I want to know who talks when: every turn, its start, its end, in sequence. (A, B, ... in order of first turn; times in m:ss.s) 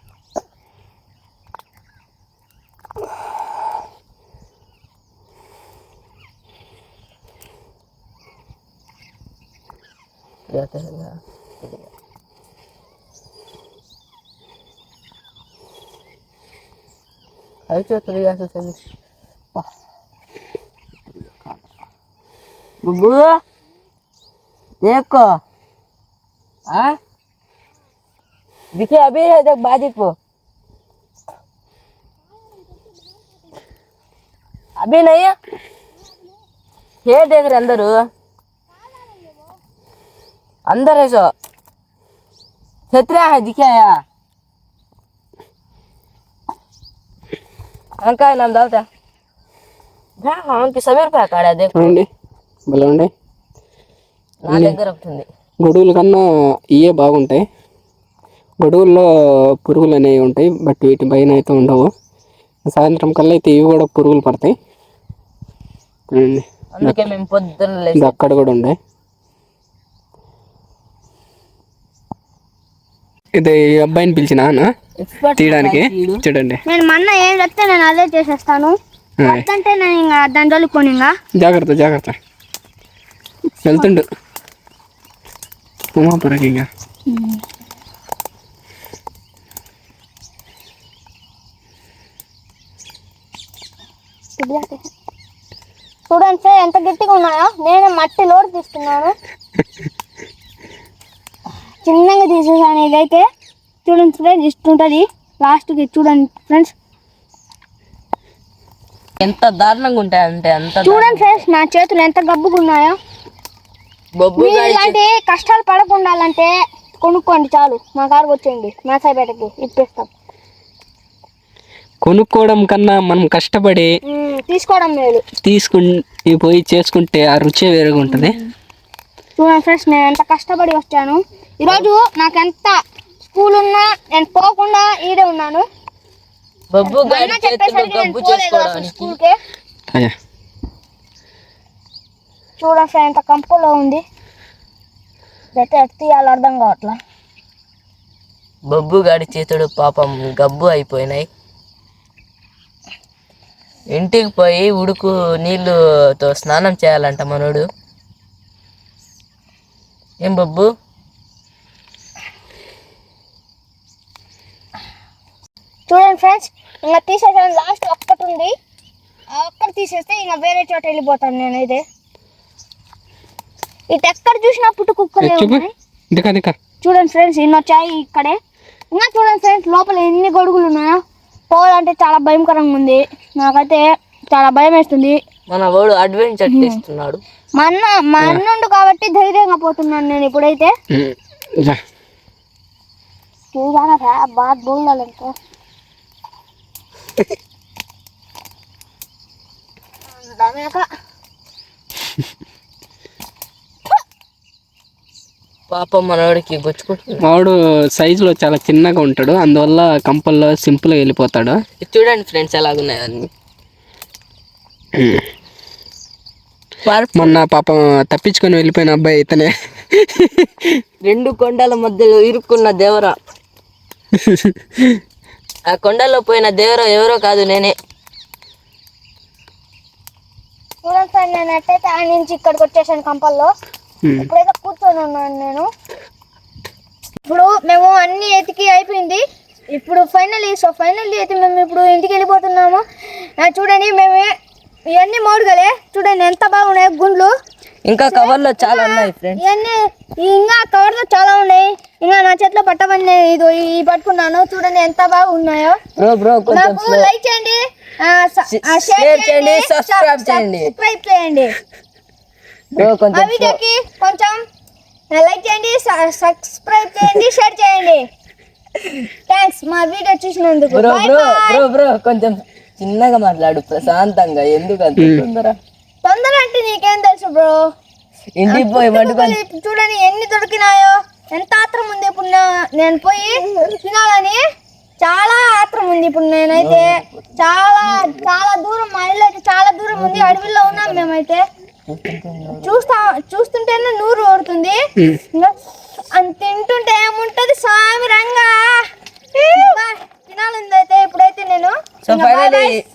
0:10.5-0:11.9 A
0:17.7-0:18.8 A
0:21.1-0:21.6 A
0:22.8-0:23.4 A
0:24.8-0:25.4 A
0:26.7-0:27.0 A
0:28.7-0:30.1 A
0:32.4-0:33.2 B
0:34.8-0:35.3 A
0:36.0-0:36.3 B
0:37.0-0:38.0 A
0:38.7-0:39.6 B
0:40.7-0:41.3 A
0:42.9-0:44.0 A
0:48.0-0:48.8 A
0:50.2-0:52.0 A
0:51.7-0:52.1 C
0:52.7-0:53.1 C
0:54.4-0:55.2 A
0:54.5-0:54.8 C
0:55.6-0:56.2 C
0:56.7-0:57.4 C
0:58.6-0:59.1 C
0:59.6-1:01.9 C
1:02.7-1:04.5 C
1:06.1-1:06.9 C
1:06.7-1:08.4 A
1:08.0-1:08.8 C
1:13.4-1:14.7 C
1:15.0-1:16.2 A
1:15.4-1:16.6 C
1:16.7-1:21.1 B
1:19.2-1:19.4 C
1:21.4-1:22.1 C
1:23.6-1:24.0 C
1:26.0-1:26.7 C
1:27.1-1:27.4 B
1:34.4-1:34.8 B
1:36.1-1:39.1 B
1:41.8-1:43.2 B
1:43.8-1:46.7 B
1:49.2-1:51.4 A
1:50.8-1:53.0 B
1:54.2-1:55.0 A
1:54.4-2:00.1 B
2:02.0-2:03.9 C
2:04.0-2:05.2 B
2:05.4-2:08.3 C
2:08.1-2:08.4 B
2:09.4-2:15.6 B
2:16.7-2:19.2 A
2:16.8-2:19.4 B
2:22.6-2:24.0 B
2:25.5-2:27.0 B
2:28.7-2:31.3 A
2:33.9-2:37.6 A
2:40.2-2:40.7 A
2:45.9-2:48.5 B
2:49.3-2:51.8 B
2:53.9-2:55.7 B
2:55.2-2:56.5 C
2:56.8-2:58.4 B
2:58.9-3:01.0 B
3:01.5-3:05.2 B
3:05.5-3:07.2 A
3:06.5-3:06.8 B
3:07.6-3:10.7 B
3:10.9-3:11.8 C
3:13.5-3:15.3 B
3:20.1-3:20.8 B
3:25.7-3:27.2 A
3:27.2-3:31.6 C
3:31.8-3:33.3 A
3:35.0-3:35.2 C
3:36.8-3:37.4 A
3:37.2-3:40.7 C
3:41.0-3:43.2 A
3:44.2-3:45.0 C
3:45.7-3:47.7 A
3:50.8-3:53.5 B
3:54.0-3:54.3 C
3:54.2-3:55.7 B
3:57.3-3:59.2 B
3:59.7-4:04.3 B
4:04.9-4:07.3 B
4:07.9-4:09.4 A
4:08.0-4:15.8 B
4:16.0-4:17.1 A
4:16.5-4:21.5 B
4:18.5-4:20.7 A
4:22.8-4:23.6 A
4:22.8-4:24.4 B
4:25.1-4:28.0 B
4:29.3-4:31.6 B
4:30.7-4:35.6 A
4:35.0-4:35.2 C
4:36.0-4:37.6 B
4:38.4-4:39.4 A
4:38.5-4:44.4 B
4:45.0-4:51.4 B
4:46.6-4:47.2 A
4:47.9-4:48.2 A
4:49.9-4:51.1 A
4:51.9-4:52.8 A
4:52.6-4:54.8 B
4:56.1-4:58.8 B
4:59.4-5:02.7 B
5:02.0-5:02.7 A